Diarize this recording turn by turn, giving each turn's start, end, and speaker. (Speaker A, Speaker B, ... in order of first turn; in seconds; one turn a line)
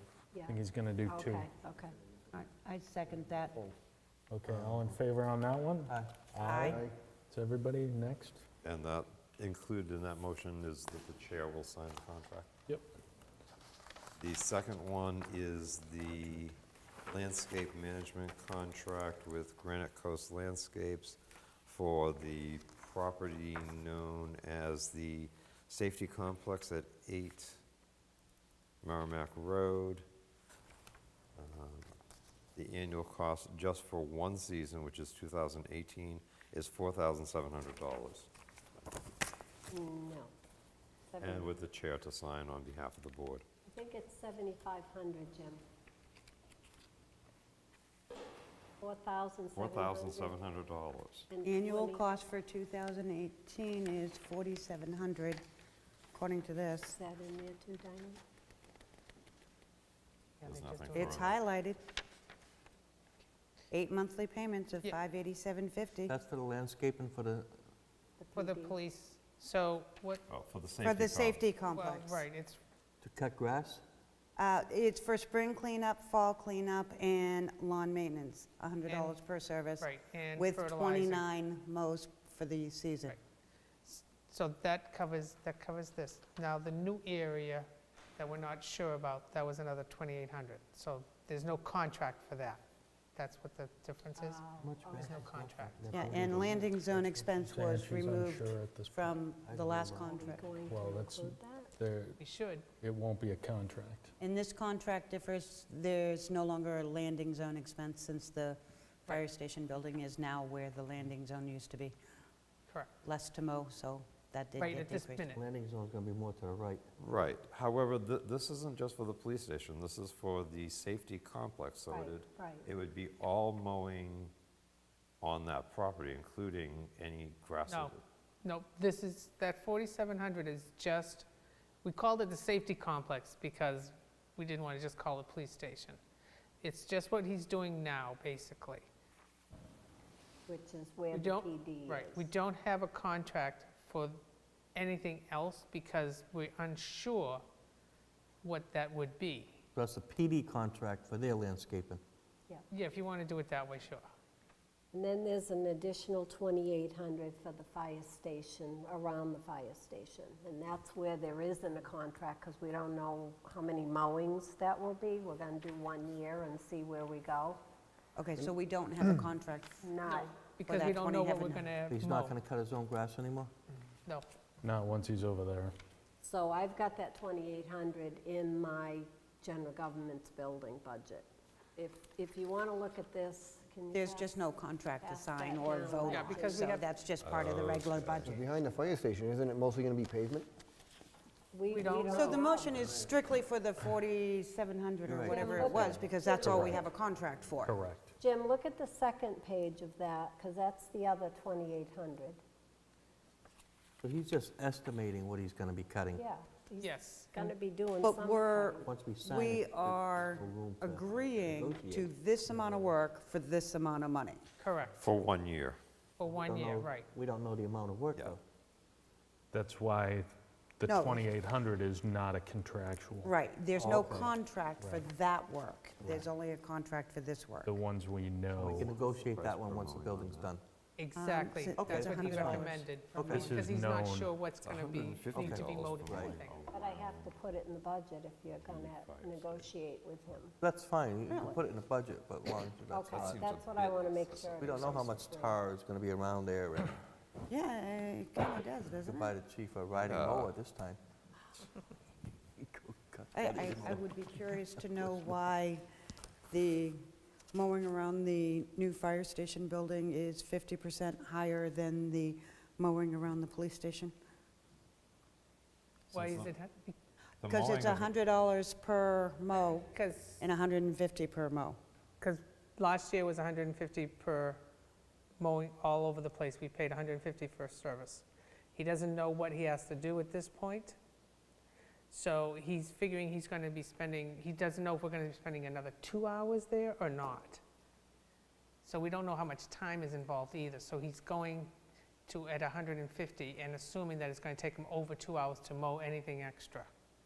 Speaker A: 0.3-1.9
Speaker B: 0.5-1.5
Speaker C: 2.3-3.7
Speaker B: 4.3-8.4
Speaker D: 5.9-6.3
Speaker C: 6.4-6.9
Speaker E: 8.6-12.5
Speaker E: 14.2-16.6
Speaker E: 17.1-27.6
Speaker E: 28.8-30.1
Speaker E: 31.4-31.9
Speaker E: 32.5-38.3
Speaker A: 39.7-40.3
Speaker A: 41.1-41.6
Speaker E: 41.2-43.4
Speaker A: 43.7-45.6
Speaker A: 48.8-50.4
Speaker E: 49.5-51.3
Speaker A: 51.3-52.1
Speaker C: 51.4-55.4
Speaker C: 56.1-57.0
Speaker A: 56.9-58.2
Speaker F: 60.4-61.2
Speaker E: 60.4-61.4
Speaker C: 60.9-61.8
Speaker C: 63.7-66.1
Speaker D: 66.1-67.5
Speaker A: 68.2-68.8
Speaker F: 68.3-70.2
Speaker E: 70.3-71.5
Speaker C: 70.8-72.2
Speaker F: 71.7-72.6
Speaker D: 73.0-73.8
Speaker C: 74.3-83.2
Speaker F: 78.9-79.1
Speaker F: 79.8-81.2
Speaker F: 83.8-92.6
Speaker F: 93.1-94.4
Speaker A: 94.2-95.2
Speaker D: 94.6-97.4
Speaker F: 95.0-95.9
Speaker C: 95.9-100.4
Speaker B: 97.4-99.1
Speaker D: 99.4-100.3
Speaker A: 99.9-101.7
Speaker B: 100.7-102.2
Speaker F: 102.2-102.7
Speaker B: 102.8-104.1
Speaker C: 104.2-111.9
Speaker C: 113.0-115.2
Speaker F: 114.6-115.4
Speaker D: 115.3-116.8
Speaker E: 117.0-124.3
Speaker A: 121.9-122.7
Speaker E: 125.2-128.0
Speaker F: 127.7-131.2
Speaker F: 131.8-136.0
Speaker F: 136.6-138.8
Speaker A: 140.5-142.3
Speaker F: 141.1-144.2
Speaker F: 144.7-147.4
Speaker F: 148.4-149.6
Speaker D: 149.7-152.0
Speaker F: 152.7-154.1
Speaker A: 154.9-167.6
Speaker C: 168.2-169.9
Speaker A: 169.8-170.3
Speaker F: 170.1-172.3
Speaker C: 170.6-171.7
Speaker D: 171.9-173.5
Speaker F: 174.1-174.3
Speaker B: 174.6-175.7
Speaker A: 176.2-184.3
Speaker C: 183.9-188.4
Speaker A: 185.0-186.7
Speaker F: 186.1-186.8
Speaker E: 187.2-188.3
Speaker G: 188.3-190.5
Speaker A: 191.5-192.9
Speaker F: 191.7-192.4
Speaker C: 192.1-197.8
Speaker D: 195.1-196.0
Speaker A: 195.3-196.9
Speaker B: 197.6-198.1
Speaker A: 198.2-202.4
Speaker D: 204.0-206.2
Speaker A: 206.1-208.9
Speaker F: 206.8-207.5
Speaker C: 208.0-214.4
Speaker D: 208.8-212.9
Speaker F: 214.6-214.9
Speaker E: 215.0-215.8
Speaker F: 216.2-217.1
Speaker D: 216.2-218.4
Speaker B: 219.5-223.3
Speaker C: 220.8-221.2
Speaker C: 223.2-227.7
Speaker D: 223.8-224.3
Speaker D: 226.0-226.3
Speaker B: 227.6-229.0
Speaker D: 228.5-230.6
Speaker E: 228.9-230.5
Speaker F: 231.0-236.6
Speaker C: 231.2-232.9
Speaker D: 231.8-233.6
Speaker B: 233.3-234.4
Speaker E: 234.6-237.4
Speaker D: 235.3-236.4
Speaker A: 236.7-240.5
Speaker E: 238.4-239.7
Speaker D: 240.6-243.4
Speaker C: 241.3-241.6
Speaker A: 242.9-245.6
Speaker E: 243.1-245.4
Speaker D: 244.6-247.0
Speaker C: 247.5-249.3
Speaker D: 249.0-251.0
Speaker E: 250.1-250.5
Speaker D: 252.6-255.3
Speaker C: 253.3-255.8
Speaker C: 256.5-264.1
Speaker E: 266.1-266.5
Speaker F: 266.1-266.9
Speaker E: 267.4-268.1
Speaker C: 267.5-271.8
Speaker F: 269.9-270.4
Speaker F: 272.2-274.6
Speaker F: 275.4-281.0
Speaker F: 282.1-287.6
Speaker F: 288.8-291.7
Speaker F: 292.3-296.9